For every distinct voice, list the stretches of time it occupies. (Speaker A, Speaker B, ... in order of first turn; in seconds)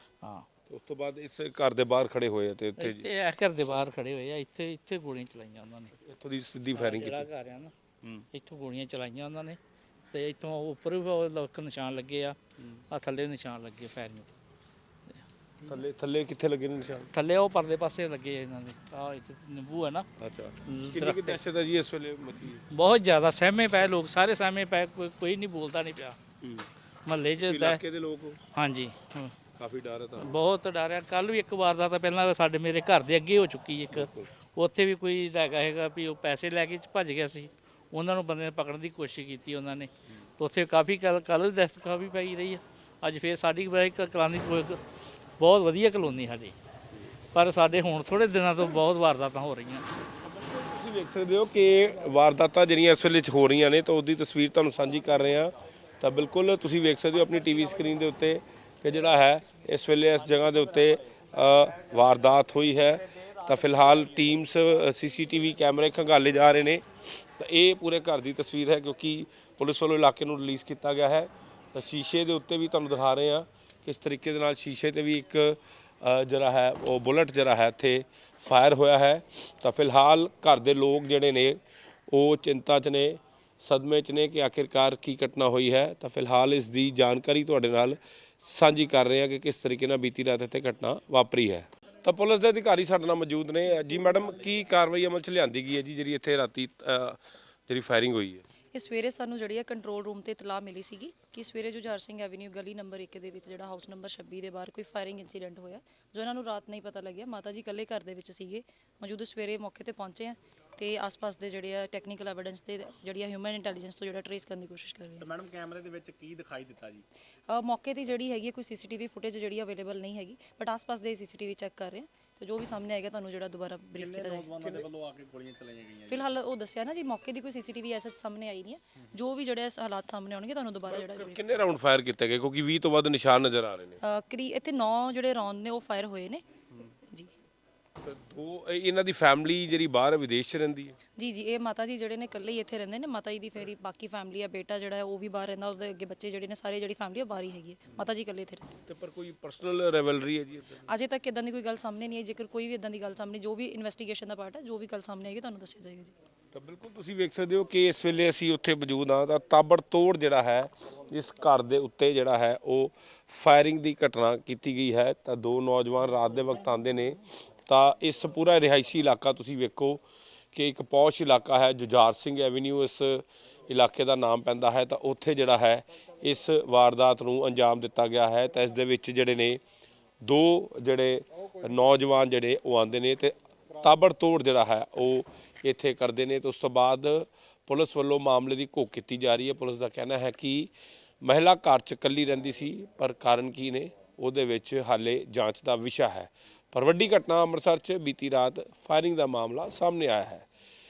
Speaker A: 0.2-0.5, 2.8-5.9, 6.7-7.7, 8.3-9.6, 10.1-12.4, 12.9-14.3, 17.1-20.1, 20.6-21.4, 22.7-26.2, 27.1-27.8, 28.5-29.3, 30.2-44.8, 45.4-46.6, 47.3-49.9
Speaker B: 0.7-3.1, 6.0-7.3, 15.6-17.1, 20.2-22.6, 26.4-26.7, 27.4-28.4, 29.6-30.4, 33.9-34.3, 50.2-98.4, 130.9-134.0, 138.0-141.0, 148.9-150.9, 156.5-170.0, 170.5-179.6, 180.2-190.7, 191.2-200.4
Speaker C: 98.7-115.3, 117.5-124.9, 126.1-131.5, 134.0-136.4, 137.1-137.3, 141.2-148.8, 150.8-156.1
Speaker D: 115.2-117.0, 124.0-126.3